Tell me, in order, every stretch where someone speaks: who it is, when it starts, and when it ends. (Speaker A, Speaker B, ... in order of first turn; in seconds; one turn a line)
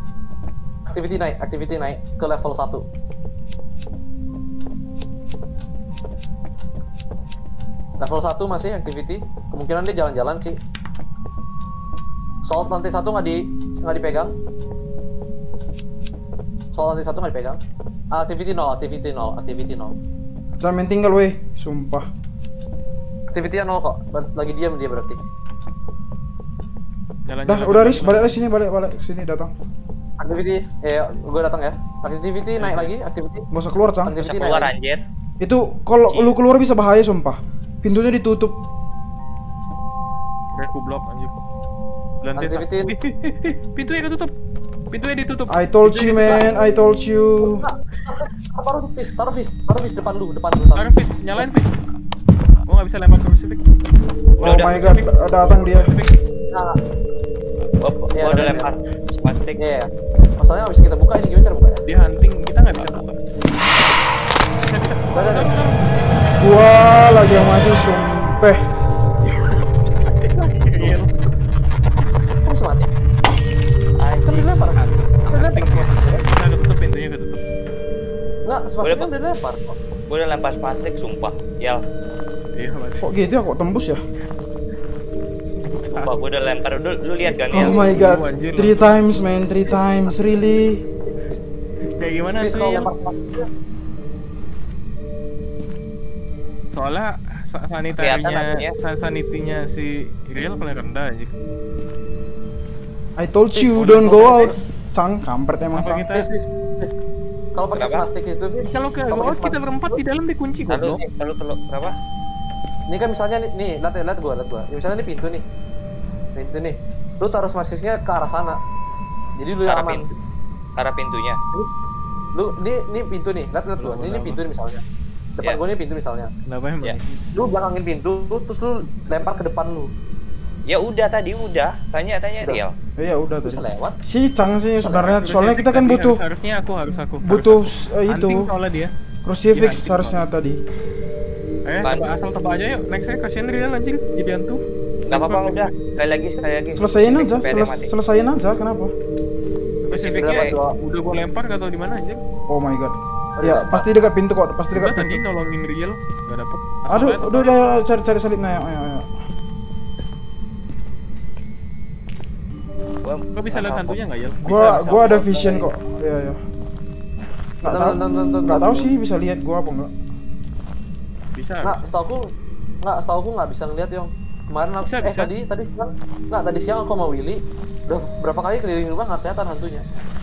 Speaker A: 0.9-2.8
Speaker A: 8.0-10.6
Speaker A: 12.5-14.3
Speaker A: 16.7-17.6
Speaker A: 18.1-20.0
Speaker B: 20.6-22.1
Speaker A: 23.3-25.2
Speaker C: 27.3-28.4
Speaker B: 27.5-29.5
Speaker A: 30.2-33.5
Speaker C: 32.6-32.9
Speaker B: 33.5-34.1
Speaker A: 34.0-34.7
Speaker D: 34.2-35.0
Speaker B: 35.4-38.6
Speaker D: 36.1-36.3
Speaker C: 40.6-41.3
Speaker C: 42.2-44.3
Speaker A: 42.4-42.9
Speaker C: 44.9-46.6
Speaker B: 45.5-47.6
Speaker A: 47.5-51.5
Speaker C: 50.8-51.8
Speaker C: 52.7-53.6
Speaker C: 54.4-56.1
Speaker B: 54.4-55.9
Speaker A: 56.5-56.8
Speaker D: 57.8-59.6
Speaker A: 58.1-58.7
Speaker A: 59.6-59.9
Speaker A: 60.4-61.8
Speaker C: 61.9-63.2
Speaker C: 64.6-66.0
Speaker A: 65.1-65.6
Speaker B: 66.4-68.6
Speaker C: 69.2-71.3
Speaker A: 72.5-72.9
Speaker D: 74.0-75.0
Speaker A: 74.2-76.2
Speaker C: 75.3-77.4
Speaker A: 78.5-79.8
Speaker D: 78.8-79.1
Speaker D: 80.1-81.8
Speaker C: 82.6-83.2
Speaker B: 83.0-84.0
Speaker C: 85.6-86.2
Speaker D: 86.0-87.8
Speaker C: 87.3-89.1
Speaker B: 87.5-90.8
Speaker C: 89.7-90.1
Speaker C: 92.0-92.9
Speaker A: 92.4-93.5
Speaker C: 96.7-101.3
Speaker D: 98.0-98.7
Speaker B: 103.2-106.1
Speaker A: 103.5-104.5
Speaker C: 103.8-104.4
Speaker C: 105.8-106.3
Speaker A: 106.1-106.9
Speaker A: 107.5-110.0
Speaker D: 107.7-108.1
Speaker C: 108.7-111.0
Speaker D: 110.7-111.9
Speaker A: 112.9-115.4
Speaker A: 116.3-118.6
Speaker A: 119.4-120.1
Speaker D: 119.7-120.1
Speaker D: 120.8-121.4
Speaker A: 122.3-124.8
Speaker C: 123.8-124.4
Speaker A: 125.4-126.3
Speaker C: 126.5-127.2
Speaker A: 127.3-129.9
Speaker D: 130.7-132.8
Speaker B: 132.5-136.2
Speaker A: 133.5-134.0
Speaker C: 134.8-138.9
Speaker B: 137.2-138.5
Speaker B: 139.2-140.6
Speaker C: 139.5-140.2
Speaker C: 141.7-145.8
Speaker D: 145.1-147.9
Speaker B: 146.8-148.9
Speaker C: 149.8-152.2
Speaker D: 149.9-150.6
Speaker A: 150.2-150.8
Speaker B: 152.5-155.2
Speaker A: 153.4-153.9
Speaker C: 154.7-157.6
Speaker B: 156.9-159.1
Speaker D: 163.0-164.0
Speaker C: 163.3-165.3
Speaker B: 164.4-166.4
Speaker A: 164.5-165.7
Speaker B: 167.6-169.9
Speaker A: 167.7-168.9
Speaker C: 171.4-171.8
Speaker A: 171.6-172.3
Speaker A: 172.8-179.8
Speaker C: 174.8-175.3